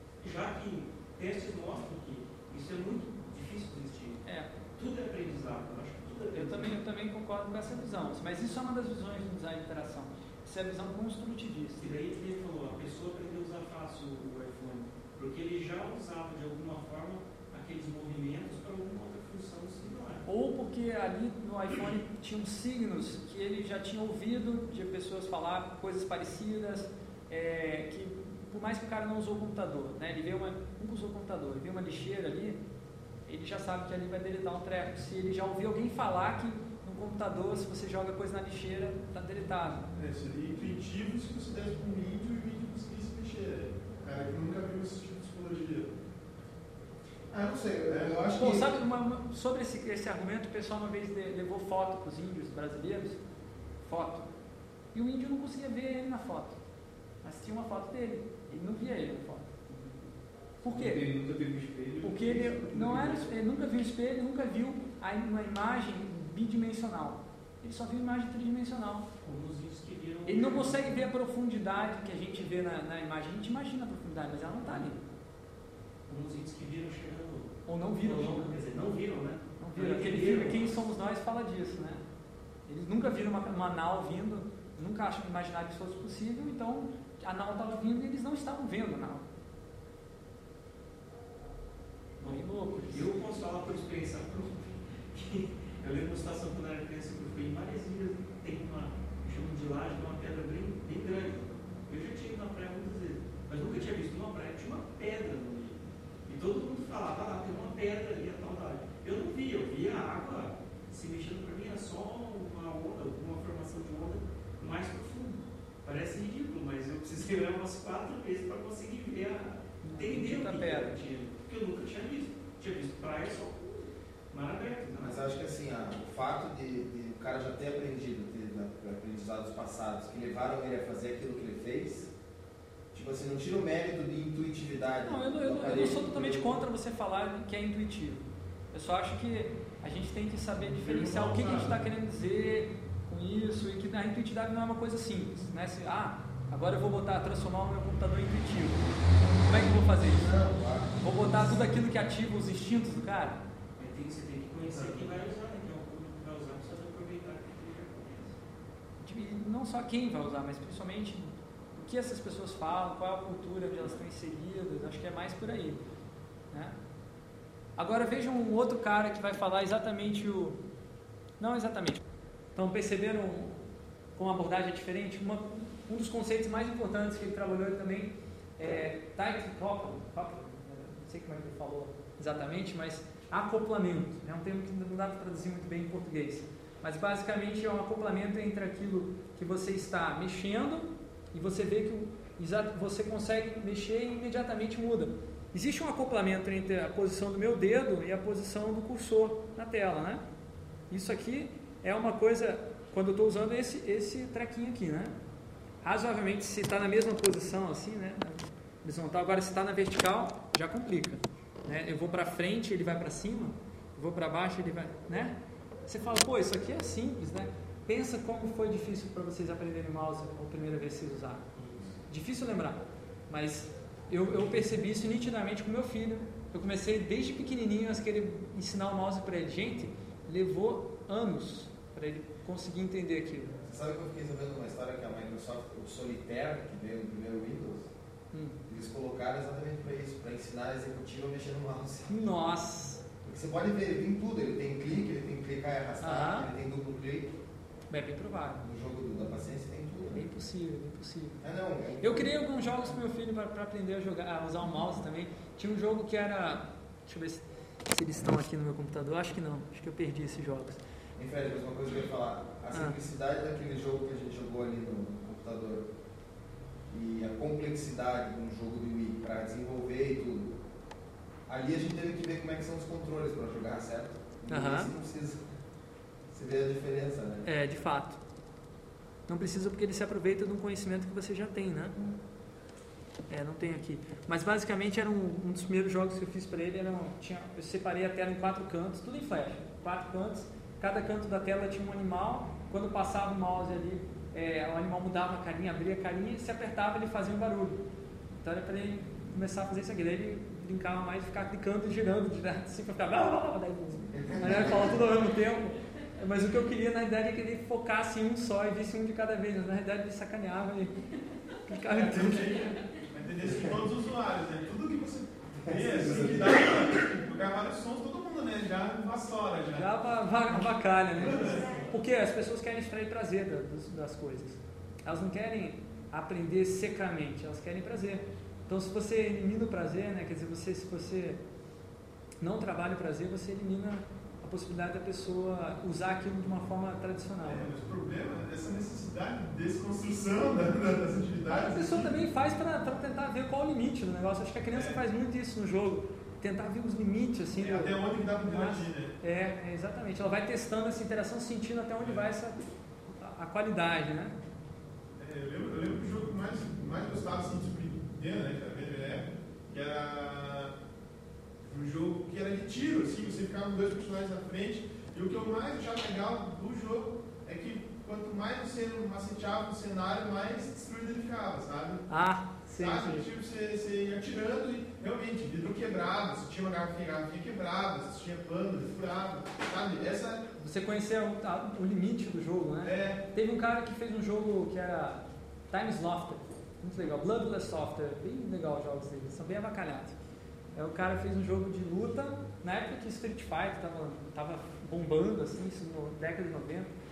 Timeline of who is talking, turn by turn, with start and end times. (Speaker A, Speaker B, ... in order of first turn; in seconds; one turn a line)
Speaker A: 0.2-4.2
Speaker B: 4.2-4.5
Speaker A: 4.8-6.8
Speaker B: 6.3-11.9
Speaker A: 11.8-20.2
Speaker B: 20.2-32.6
Speaker B: 33.3-39.9
Speaker C: 39.9-45.9
Speaker D: 47.3-48.7
Speaker C: 47.9-48.2
Speaker B: 48.3-53.2
Speaker B: 53.8-54.3
Speaker B: 54.9-56.6
Speaker B: 57.2-59.5
Speaker E: 59.7-60.1
Speaker B: 60.6-61.0
Speaker E: 60.6-63.3
Speaker B: 62.0-69.1
Speaker A: 69.2-71.1
Speaker B: 70.3-75.0
Speaker A: 76.1-80.7
Speaker B: 77.7-79.0
Speaker B: 79.6-82.0
Speaker B: 82.7-89.2
Speaker A: 92.2-125.3
Speaker B: 92.2-93.2
Speaker B: 119.8-120.9
Speaker D: 125.0-132.1
Speaker D: 132.9-136.7
Speaker B: 135.1-150.4
Speaker C: 140.6-141.8
Speaker D: 150.1-151.4
Speaker B: 151.0-153.4
Speaker A: 153.8-158.4
Speaker B: 159.0-165.8
Speaker B: 166.5-166.8
Speaker B: 167.8-170.6
Speaker B: 171.4-172.0
Speaker B: 172.6-173.6
Speaker B: 174.2-200.2
Speaker B: 200.9-205.1
Speaker B: 205.8-221.5
Speaker C: 221.5-222.0
Speaker B: 222.1-233.6
Speaker D: 233.6-237.9
Speaker B: 238.3-238.6
Speaker D: 238.7-242.1
Speaker B: 242.1-243.0
Speaker D: 243.2-247.3
Speaker B: 246.0-246.5
Speaker B: 247.9-248.7
Speaker D: 248.6-250.3
Speaker B: 250.1-251.4
Speaker D: 251.4-252.7
Speaker B: 252.0-260.8
Speaker D: 261.2-265.9
Speaker D: 266.9-270.6
Speaker D: 271.5-275.4
Speaker B: 274.5-274.9
Speaker D: 276.3-277.5
Speaker B: 277.4-278.2
Speaker B: 279.3-282.0
Speaker B: 283.3-297.8
Speaker B: 298.4-310.9
Speaker D: 304.1-305.1
Speaker B: 311.6-312.7
Speaker C: 311.9-319.9
Speaker E: 315.7-316.6
Speaker D: 316.0-316.4
Speaker B: 319.8-331.4
Speaker C: 321.1-321.9
Speaker B: 332.4-337.7
Speaker C: 337.4-342.1
Speaker B: 341.5-354.4
Speaker C: 344.7-345.0
Speaker C: 347.6-349.1
Speaker C: 352.0-352.3
Speaker C: 355.2-360.7
Speaker C: 361.7-372.0
Speaker B: 372.1-373.3
Speaker C: 372.8-380.4
Speaker B: 380.6-390.2
Speaker C: 382.8-383.2
Speaker B: 390.8-396.9